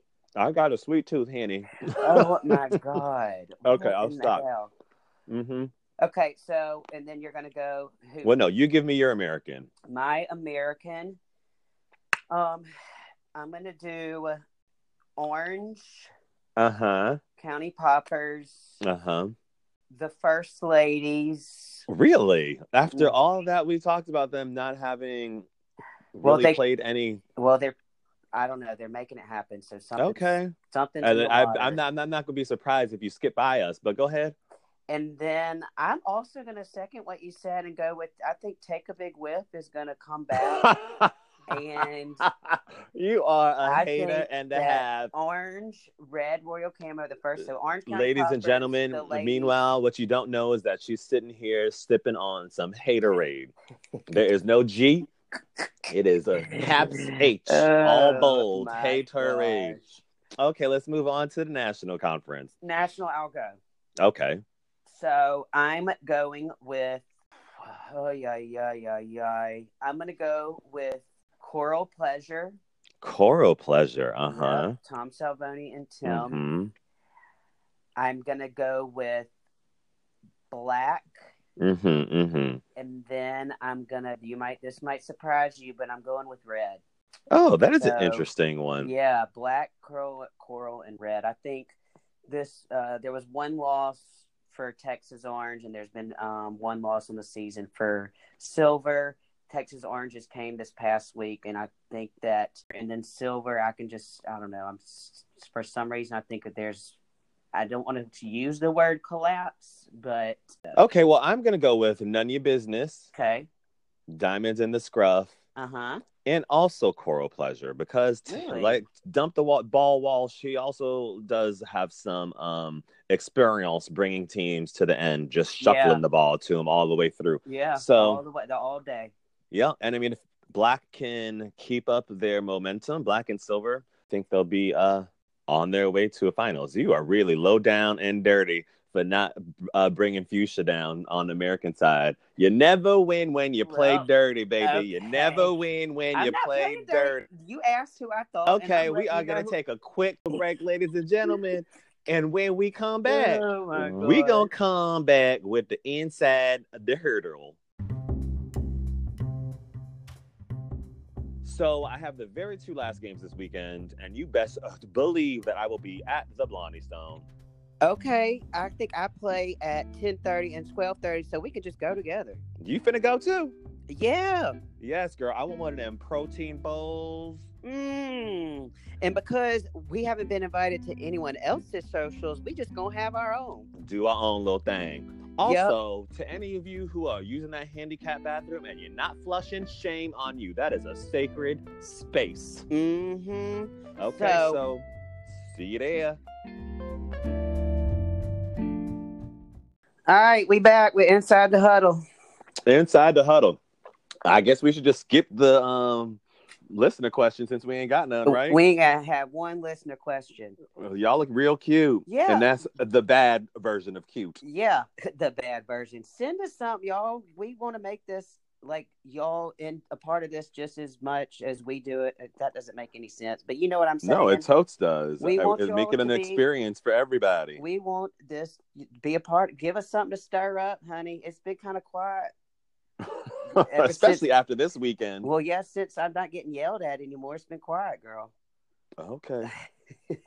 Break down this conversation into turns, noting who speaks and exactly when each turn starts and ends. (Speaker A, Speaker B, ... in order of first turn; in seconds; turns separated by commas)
Speaker A: 0.4-2.8, Speaker B: 1.9-4.7, Speaker A: 3.6-4.4, Speaker A: 5.3-5.7, Speaker B: 6.0-8.4, Speaker A: 8.2-9.7, Speaker B: 9.9-11.2, Speaker B: 12.3-12.7, Speaker B: 13.3-14.4, Speaker B: 15.2-16.1, Speaker A: 16.6-17.2, Speaker B: 17.4-18.8, Speaker A: 18.8-19.3, Speaker B: 19.9-21.9, Speaker A: 21.9-25.5, Speaker A: 26.1-27.2, Speaker B: 26.2-26.6, Speaker B: 27.4-27.8, Speaker B: 28.3-31.8, Speaker A: 30.0-34.4, Speaker B: 34.9-40.7, Speaker A: 40.4-41.1, Speaker B: 41.5-42.3, Speaker A: 42.2-45.1, Speaker B: 43.6-49.5, Speaker A: 47.9-53.5, Speaker A: 54.1-55.1, Speaker A: 55.9-59.8, Speaker B: 56.4-60.0, Speaker A: 60.4-62.5, Speaker B: 62.6-63.6, Speaker A: 64.0-64.4, Speaker B: 64.9-67.1, Speaker B: 67.6-72.6, Speaker A: 73.0-74.8, Speaker B: 74.3-76.4, Speaker A: 76.1-76.7, Speaker B: 78.0-79.3, Speaker B: 80.5-81.2, Speaker A: 81.6-82.6, Speaker B: 82.8-86.8, Speaker A: 87.3-88.9, Speaker B: 87.8-88.3, Speaker B: 88.8-91.8, Speaker B: 92.3-107.0, Speaker B: 107.5-110.8, Speaker A: 110.8-113.1, Speaker B: 113.1-113.5, Speaker A: 114.1-115.3, Speaker B: 115.6-116.0, Speaker A: 116.2-128.2, Speaker B: 118.3-118.8, Speaker B: 125.6-126.0, Speaker B: 127.5-129.1, Speaker A: 129.5-147.2, Speaker B: 143.7-144.1, Speaker B: 144.6-145.5, Speaker B: 146.1-149.5, Speaker A: 148.5-157.6, Speaker B: 153.1-154.5, Speaker A: 161.4-167.3, Speaker B: 167.8-172.4, Speaker A: 172.6-173.6, Speaker B: 173.9-174.6, Speaker A: 174.8-177.4, Speaker B: 177.6-183.7, Speaker A: 183.8-192.7, Speaker B: 185.4-185.8, Speaker B: 192.7-194.6, Speaker A: 194.0-196.2, Speaker B: 200.1-202.0, Speaker A: 202.7-203.6, Speaker A: 204.2-208.6, Speaker B: 208.3-210.6, Speaker A: 210.8-214.4, Speaker B: 212.1-212.5, Speaker B: 214.4-224.5, Speaker A: 224.0-227.6, Speaker B: 225.2-226.4, Speaker B: 227.6-232.3, Speaker A: 233.0-235.3, Speaker B: 233.5-234.2, Speaker B: 235.2-238.3, Speaker A: 239.0-239.5